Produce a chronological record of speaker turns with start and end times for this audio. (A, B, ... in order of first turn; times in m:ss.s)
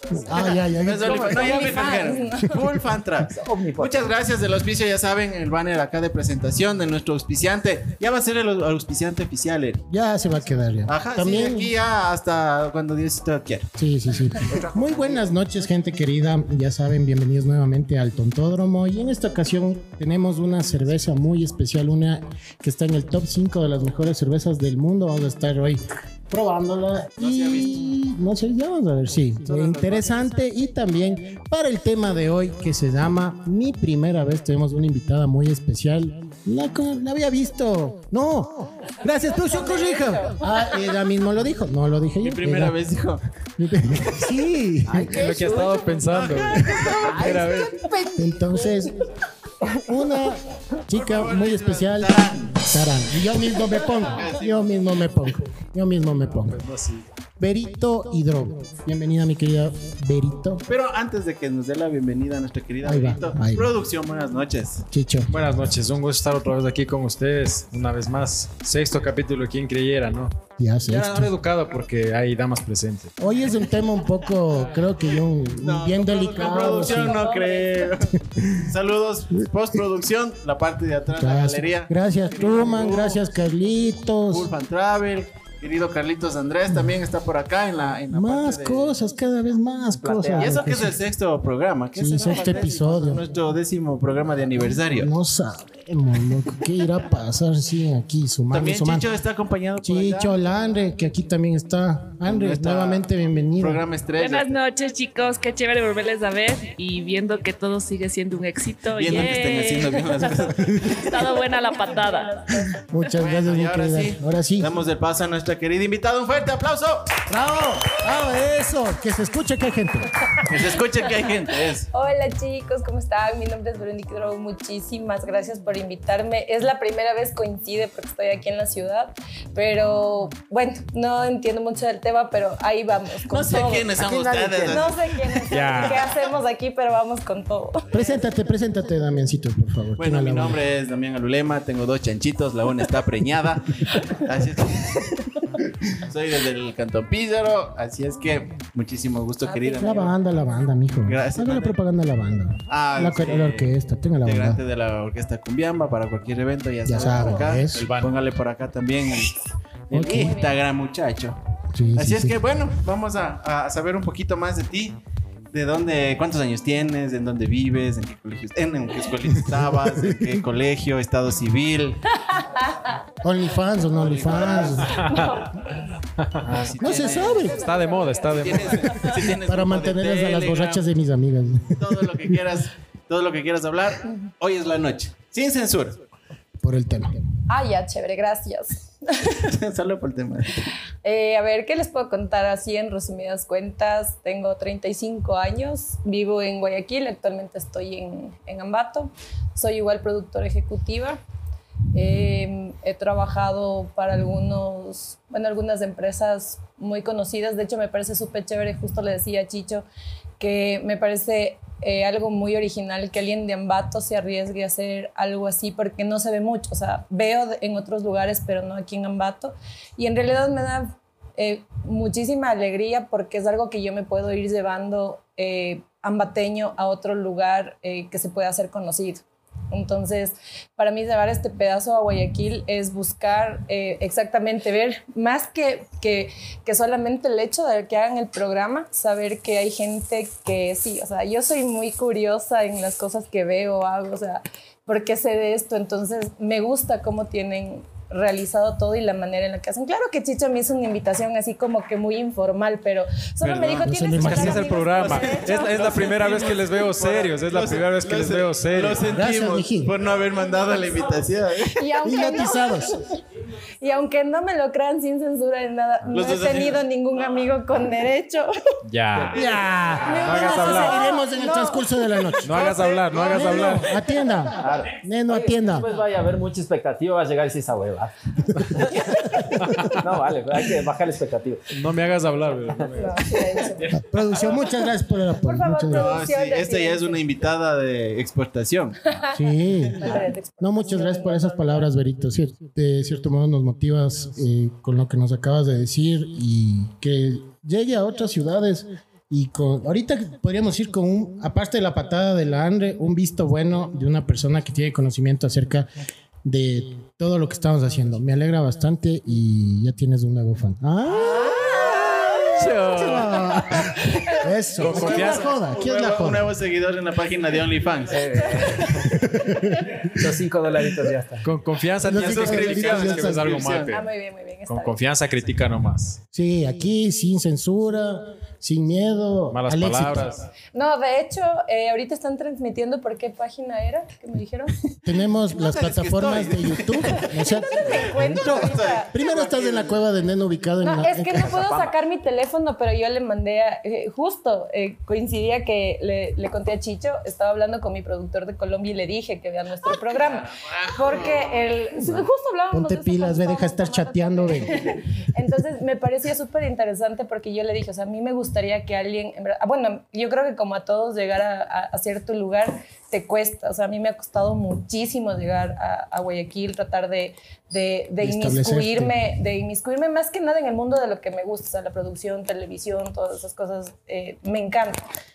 0:00.1-0:01.7 A
0:00.4-0:09.8 B
0:01.1-0:02.6 C
0:03.2-0:04.1 D
0:09.9-0:11.7 A
0:10.9-0:13.7 B
0:13.8-0:42.8 A
0:14.5-0:15.3 D
0:27.2-0:28.0 B
0:29.5-0:30.2 B
0:42.2-0:43.2 B
0:43.6-0:45.2 A
0:44.8-0:46.0 D
0:45.1-0:47.9 E
0:46.0-0:47.4 B
0:46.5-0:48.7 D
0:48.1-0:49.0 A
0:49.6-0:56.6 A
0:50.9-0:52.7 B
0:54.0-0:55.0 B
0:56.5-0:57.0 E
0:57.4-1:00.6 A
1:00.7-1:04.8 B
1:02.8-1:03.7 A
1:04.9-1:05.3 A
1:05.3-1:13.1 E
1:10.6-1:11.3 A
1:13.2-1:17.2 A
1:15.6-1:23.2 B
1:16.4-1:17.9 C
1:18.4-1:18.7 A
1:21.1-1:24.5 A
1:24.3-1:29.0 B
1:28.1-1:31.0 A
1:30.0-1:30.7 D
1:30.4-1:35.1 B
1:31.9-1:33.2 A
1:35.0-1:39.0 A
1:38.5-1:40.3 B
1:39.8-1:43.8 A
1:42.2-1:43.0 B
1:43.6-1:44.6 B
1:44.2-1:52.7 F
1:49.0-1:51.2 B
1:52.7-1:54.7 A
1:53.1-1:57.2 B
1:57.3-2:00.4 A
2:00.4-2:01.9 B
2:01.9-2:13.9 C
2:13.3-2:14.9 B
2:13.9-2:14.8 D
2:14.7-2:18.2 C
2:15.5-2:16.1 E
2:17.9-2:20.6 A
2:20.0-2:25.3 B
2:25.9-2:30.2 B
2:29.4-2:30.1 C
2:29.8-2:34.6 A
2:31.0-2:31.8 B
2:32.7-2:33.7 B
2:34.2-2:39.4 B
2:36.8-2:37.8 A
2:37.7-2:38.1 E
2:39.9-2:41.4 B
2:39.9-2:40.4 A
2:40.1-2:40.6 C
2:41.7-2:42.4 A
2:42.0-2:45.0 B
2:45.5-2:52.0 B
2:49.3-2:50.4 A
2:52.3-2:53.0 C
2:53.2-2:55.0 A
2:54.0-2:55.0 B
2:54.9-2:55.4 E
2:54.9-2:55.5 C
2:56.2-2:56.5 E
2:56.4-2:57.5 B
2:56.8-2:57.7 A
2:57.2-2:58.4 C
2:57.4-2:58.8 E
2:58.2-3:00.8 B
2:58.9-3:02.4 A
3:01.8-3:06.0 B
3:06.6-3:07.2 A
3:07.5-3:09.5 C
3:09.4-3:10.6 B
3:11.0-3:21.2 C
3:21.9-3:29.8 C
3:30.4-4:15.7 C
4:13.4-4:13.8 B
4:13.8-4:14.7 A
4:14.2-4:19.0 E
4:14.4-4:22.2 B
4:19.0-4:20.0 A
4:21.8-4:23.2 C
4:22.0-4:23.0 A
4:23.8-4:28.5 C
4:26.1-4:26.8 B
4:28.8-4:29.4 E
4:29.3-4:35.9 A
4:29.4-4:30.1 B
4:30.0-4:32.3 C
4:30.2-4:31.0 E
4:32.4-4:34.0 E
4:32.5-4:33.8 B
4:34.6-4:41.8 D
4:41.7-4:43.9 E
4:43.0-4:43.9 C
4:43.9-4:46.2 A
4:45.4-4:47.2 C
4:45.9-4:49.0 B
4:49.1-4:49.4 C
4:49.3-5:05.9 A
4:49.9-4:51.5 C
5:06.4-5:16.5 A
5:11.5-5:11.9 C
5:11.7-5:13.5 E
5:14.8-5:15.5 E
5:14.8-5:18.8 B
5:18.1-5:19.2 D
5:19.2-5:20.0 A
5:20.0-5:21.4 D
5:21.4-5:24.0 E
5:22.0-5:23.6 A
5:22.0-5:24.0 B
5:23.9-5:24.9 C
5:24.7-5:26.2 E
5:26.3-5:30.4 A
5:29.5-5:30.4 E
5:30.7-5:34.8 C
5:34.9-5:41.6 A
5:35.5-5:40.0 B
5:37.3-5:39.1 C
5:40.8-6:15.0 C
5:41.5-5:41.9 D
5:50.2-5:51.5 B
5:52.0-5:55.0 A
6:08.2-6:09.1 A